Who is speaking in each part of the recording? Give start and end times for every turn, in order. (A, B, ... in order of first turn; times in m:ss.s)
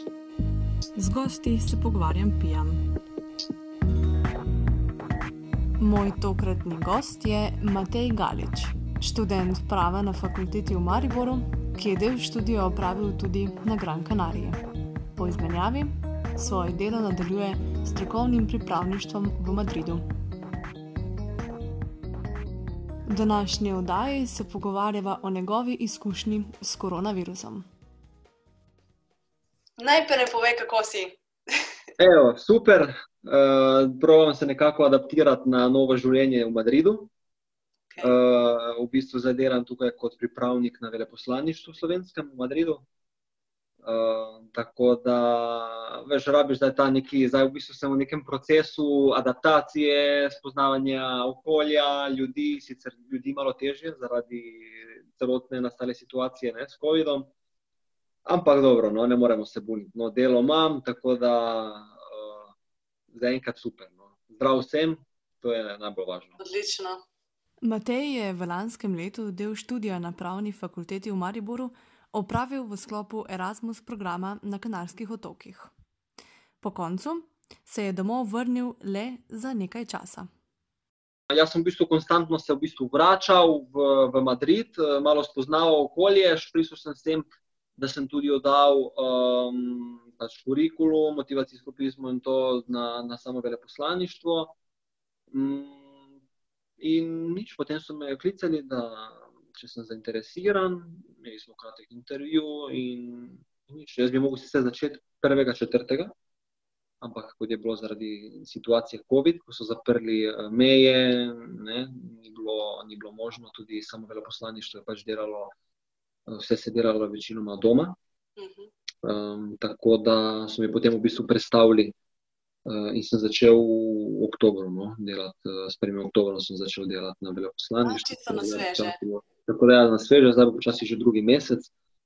0:01.0-0:02.8 A
0:05.8-0:14.6 A
0:15.2-0:20.0 A
0:23.1-0:27.7 A
0:29.8-0:31.6 B
0:32.0-0:37.1 C
0:38.0-0:42.8 C
0:43.8-0:57.3 C
0:58.3-1:02.5 C
1:03.1-1:06.4 C
1:06.4-1:07.0 B
1:07.6-1:15.7 A
1:16.6-1:20.3 A
1:21.3-1:34.5 C
1:35.3-1:36.1 C
1:36.8-1:46.1 C
1:47.0-1:55.5 C
1:56.3-1:58.0 C
1:58.4-1:58.7 B
1:59.0-2:02.0 C
2:02.7-2:11.7 C
2:07.8-2:09.0 B